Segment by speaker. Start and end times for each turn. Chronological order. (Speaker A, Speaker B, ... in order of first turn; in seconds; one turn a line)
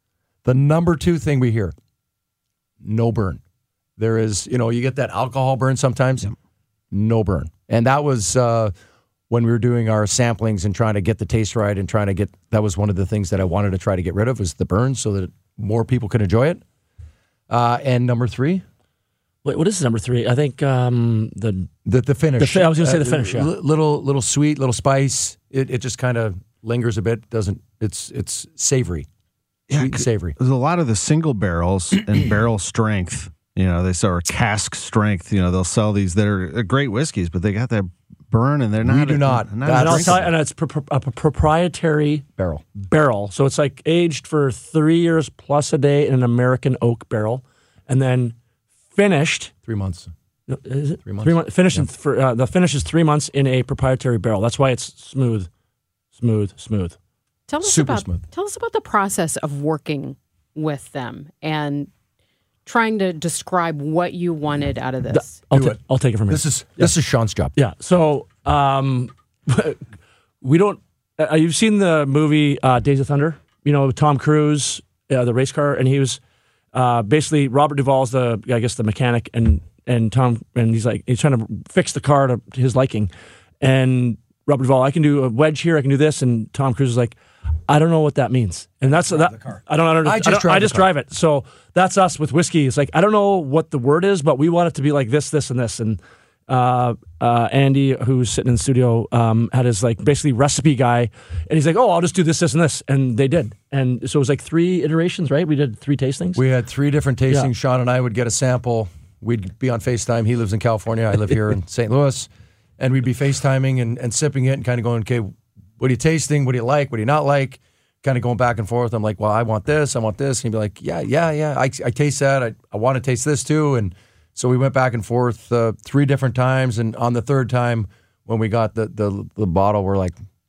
Speaker A: 0.5-1.8
Speaker A: 2.8-3.4
Speaker A: 4.0-6.3
Speaker A: 6.9-8.7
Speaker A: 9.3-16.6
Speaker A: 17.5-18.6
Speaker B: 19.4-21.7
Speaker A: 21.9-29.1
Speaker B: 22.4-23.5
Speaker C: 29.7-40.3
Speaker A: 29.8-30.4
Speaker A: 38.8-40.2
Speaker B: 39.7-48.4
Speaker B: 48.9-49.5
Speaker A: 49.6-50.1
Speaker B: 50.5-55.5
Speaker A: 51.0-51.9
Speaker B: 56.1-57.0
Speaker D: 57.5-61.9
Speaker A: 57.6-58.2
Speaker D: 62.7-65.5
Speaker B: 65.1-66.9
Speaker A: 65.5-67.5
Speaker B: 67.5-69.8
Speaker B: 70.4-76.2
Speaker B: 76.7-87.2
Speaker B: 87.7-106.4
Speaker A: 90.0-90.9
Speaker A: 106.4-130.2